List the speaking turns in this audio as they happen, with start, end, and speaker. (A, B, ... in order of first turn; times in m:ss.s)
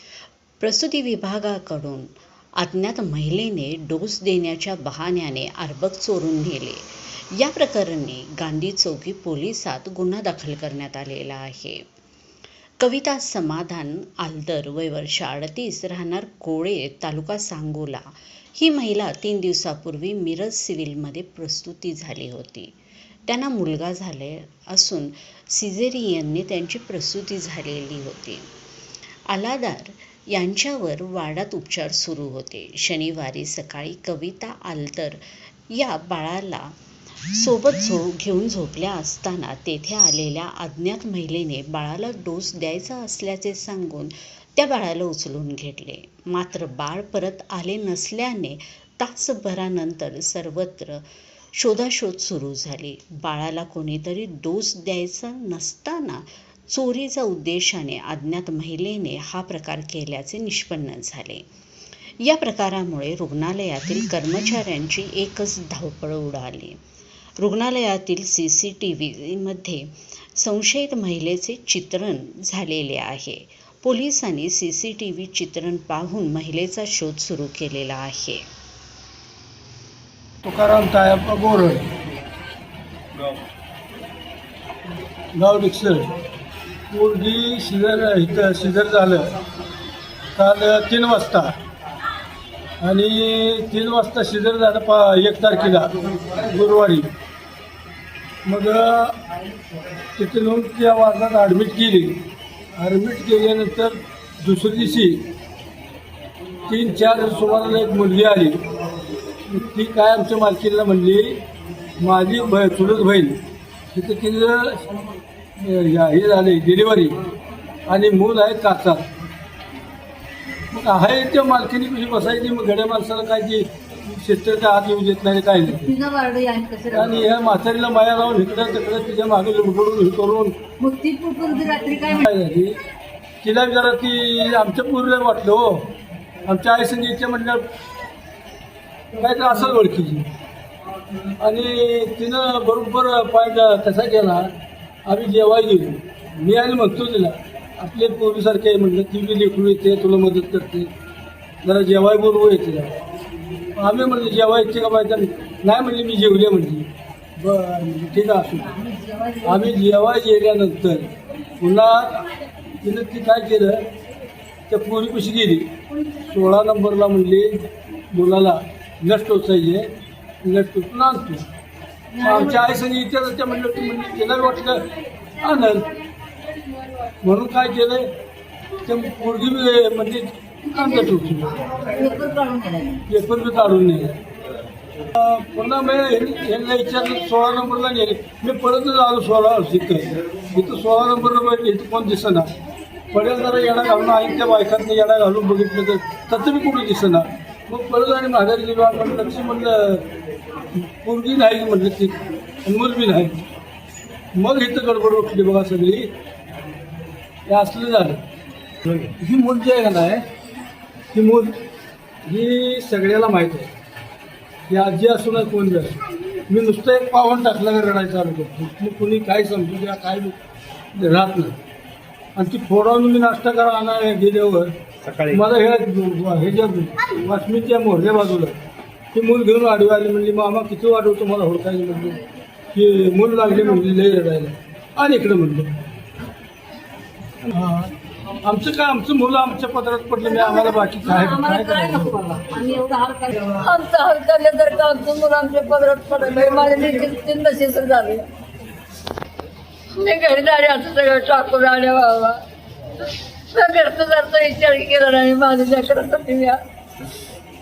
0:00.6-0:11.9 A
0:12.8-0:22.8 A
0:23.3-0:28.5 A
0:29.3-0:36.8 A
0:37.3-1:01.4 A
1:02.2-1:06.8 A
1:07.4-1:18.4 A
1:20.4-1:21.9 B
1:25.4-1:26.1 B
1:26.9-1:29.3 B
1:30.4-1:31.6 B
1:32.8-1:37.1 B
1:38.4-1:39.2 B
1:40.2-1:42.2 B
1:42.8-1:45.3 B
1:46.7-1:48.6 B
1:49.5-1:51.4 B
1:52.0-1:53.4 B
1:53.9-1:54.9 B
1:55.6-1:57.2 B
1:57.9-1:59.0 B
2:00.7-2:05.9 B
2:05.7-2:07.1 C
2:06.9-2:10.6 B
2:10.8-2:12.2 C
2:12.2-2:12.8 B
2:13.4-2:15.9 B
2:16.4-2:17.6 B
2:19.1-2:20.3 B
2:21.4-2:24.5 B
2:25.1-2:30.9 B
2:31.6-2:33.0 B
2:33.8-2:38.9 B
2:39.1-2:39.4 C
2:39.4-2:42.3 B
2:42.8-2:43.8 B
2:44.7-2:49.9 B
2:50.4-2:51.4 B
2:52.1-2:52.5 C
2:52.2-2:54.8 B
2:55.4-2:55.9 B
2:57.2-2:58.1 B
2:58.8-3:01.6 B
3:01.8-3:03.0 C
3:03.1-3:04.2 B
3:05.1-3:12.5 B
3:13.1-3:20.1 B
3:20.8-3:23.4 B
3:24.4-3:26.1 B
3:27.5-3:28.2 B
3:29.0-3:30.2 B
3:31.1-3:31.6 B
3:32.3-3:33.7 B
3:34.7-3:40.4 B
3:41.0-3:41.6 B
3:42.4-3:44.7 B
3:45.2-3:48.6 B
3:49.1-3:52.2 B
3:52.7-3:55.7 B
3:57.4-4:02.2 B
4:00.5-4:08.3 C
4:10.0-4:12.4 C
4:13.5-4:16.6 C